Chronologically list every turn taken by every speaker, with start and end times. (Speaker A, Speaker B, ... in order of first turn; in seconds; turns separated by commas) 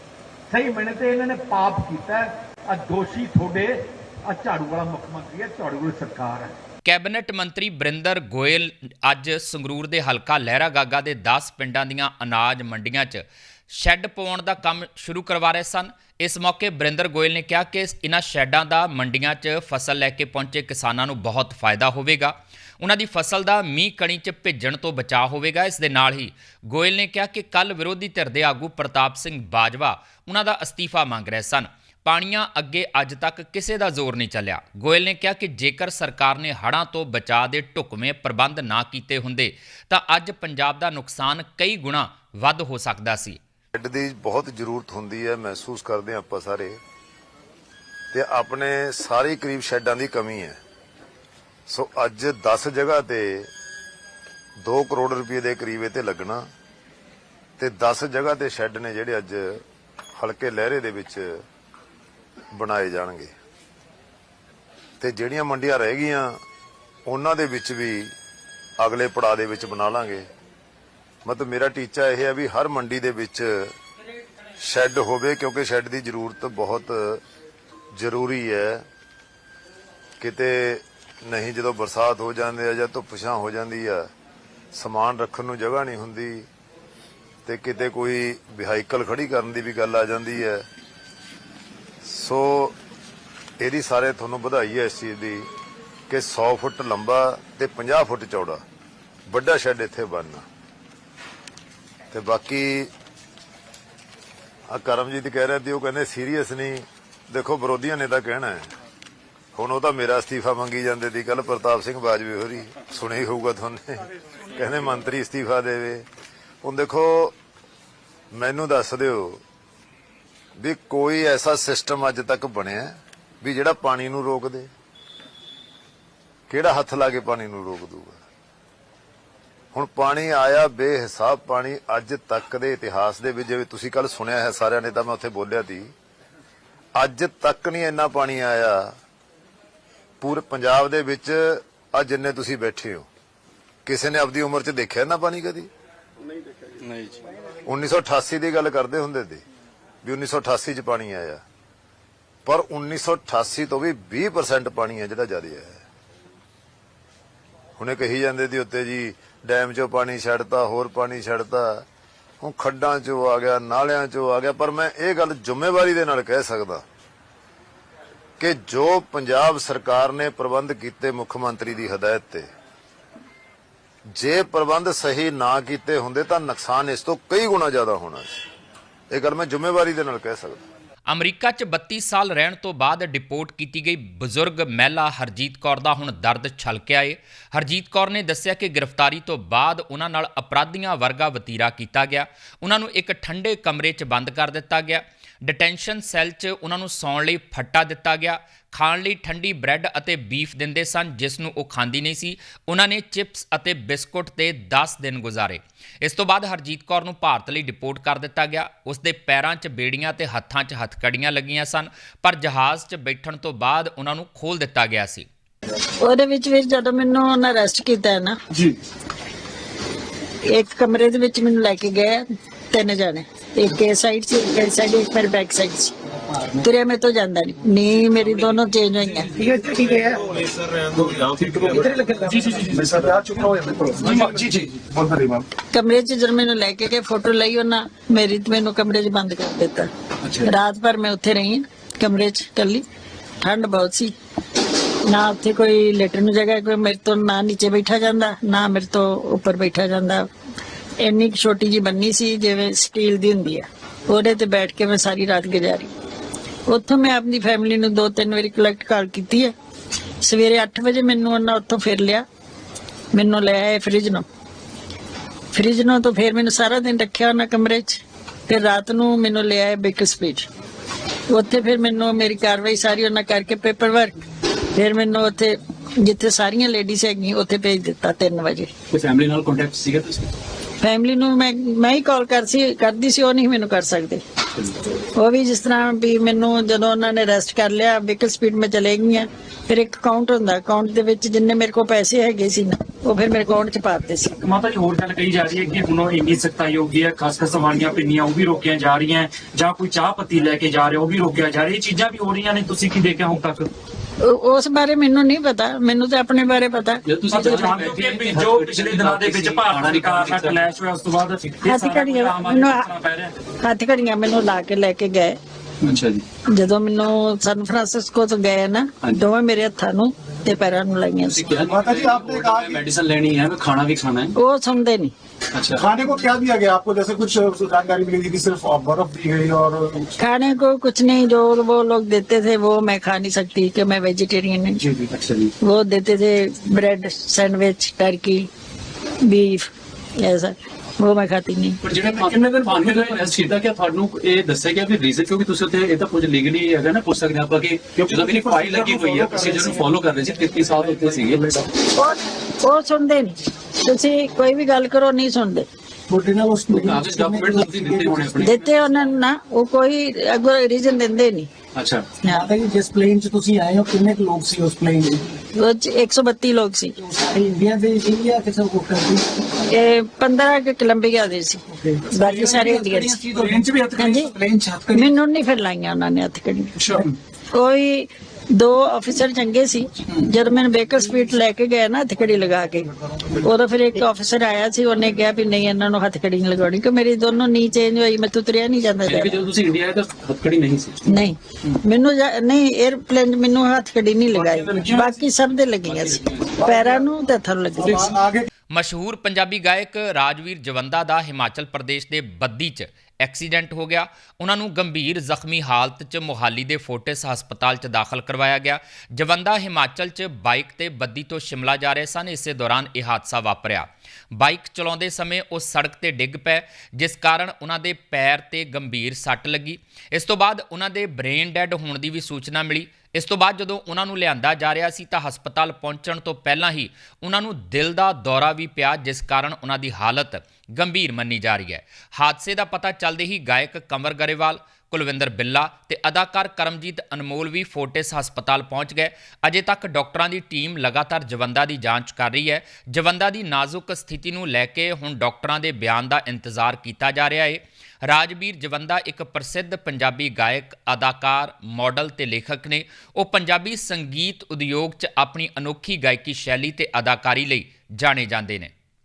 Speaker A: 0.5-6.5, Speaker B: 6.8-43.4, Speaker C: 43.8-46.8, Speaker C: 48.1-50.6, Speaker C: 51.7-53.5, Speaker C: 54.6-56.5, Speaker C: 57.6-59.6, Speaker C: 60.1-61.4, Speaker C: 62.5-63.3, Speaker C: 65.0-66.4, Speaker C: 67.0-68.1, Speaker C: 68.8-70.3, Speaker C: 71.2-73.7, Speaker C: 74.6-77.2, Speaker C: 77.9-78.9, Speaker C: 80.2-84.1, Speaker C: 84.7-86.5, Speaker C: 87.4-90.6, Speaker C: 92.0-92.8, Speaker C: 93.6-95.5, Speaker C: 96.1-98.6, Speaker C: 99.3-100.4, Speaker C: 102.1-102.9, Speaker C: 104.7-108.7, Speaker C: 109.5-116.0, Speaker C: 116.6-117.3, Speaker C: 118.3-119.4, Speaker C: 120.6-124.7, Speaker C: 126.5-128.2, Speaker C: 129.7-135.9, Speaker C: 136.9-138.9, Speaker C: 140.2-143.1, Speaker C: 143.8-145.7, Speaker C: 147.7-149.4, Speaker C: 150.0-151.4, Speaker C: 152.4-155.8, Speaker C: 157.8-161.8, Speaker C: 162.4-166.8, Speaker C: 168.4-172.5, Speaker C: 174.1-178.4, Speaker C: 179.1-180.6, Speaker B: 181.1-215.3, Speaker D: 216.0-218.4, Speaker D: 220.5-225.9, Speaker D: 226.6-229.4, Speaker E: 227.9-229.6, Speaker F: 229.4-230.2, Speaker G: 229.6-235.4, Speaker E: 231.3-231.9, Speaker F: 231.7-232.6, Speaker H: 232.2-233.4, Speaker H: 233.9-234.7, Speaker D: 235.7-239.9, Speaker E: 240.2-240.5, Speaker D: 240.4-242.8, Speaker D: 243.4-244.1, Speaker D: 245.0-250.3, Speaker D: 251.0-255.9, Speaker D: 256.7-259.5, Speaker D: 260.2-262.2, Speaker D: 263.1-264.2, Speaker D: 265.5-270.5, Speaker D: 271.3-274.1, Speaker D: 274.8-278.7, Speaker E: 278.9-280.3, Speaker D: 280.8-284.2, Speaker D: 285.1-294.4, Speaker H: 294.4-303.7, Speaker D: 304.2-307.0, Speaker E: 307.0-310.6, Speaker H: 307.3-313.3, Speaker D: 311.6-312.9, Speaker D: 313.6-315.4, Speaker E: 315.8-316.2, Speaker D: 316.5-321.5, Speaker E: 321.2-324.3, Speaker G: 321.6-322.8, Speaker D: 324.4-325.1, Speaker E: 325.5-325.9, Speaker G: 325.8-330.1, Speaker D: 330.2-334.8, Speaker E: 334.8-335.5, Speaker D: 335.6-338.5, Speaker D: 339.2-341.8, Speaker E: 341.8-351.5, Speaker H: 342.6-343.4, Speaker G: 348.0-351.6, Speaker D: 351.9-355.6, Speaker F: 356.1-358.5, Speaker E: 356.7-358.7, Speaker D: 358.4-361.5, Speaker E: 361.8-362.1, Speaker F: 362.3-365.4, Speaker D: 365.6-366.9, Speaker F: 367.0-369.7, Speaker D: 369.7-373.2, Speaker F: 371.7-375.1, Speaker H: 373.4-374.2, Speaker D: 373.9-374.3, Speaker D: 374.9-376.8, Speaker E: 376.8-377.1, Speaker D: 377.5-382.9, Speaker D: 383.4-389.4, Speaker E: 389.0-391.1, Speaker D: 391.1-398.1, Speaker E: 394.3-395.2, Speaker E: 395.9-397.0, Speaker E: 397.8-398.1, Speaker G: 397.9-398.4, Speaker B: 398.7-458.7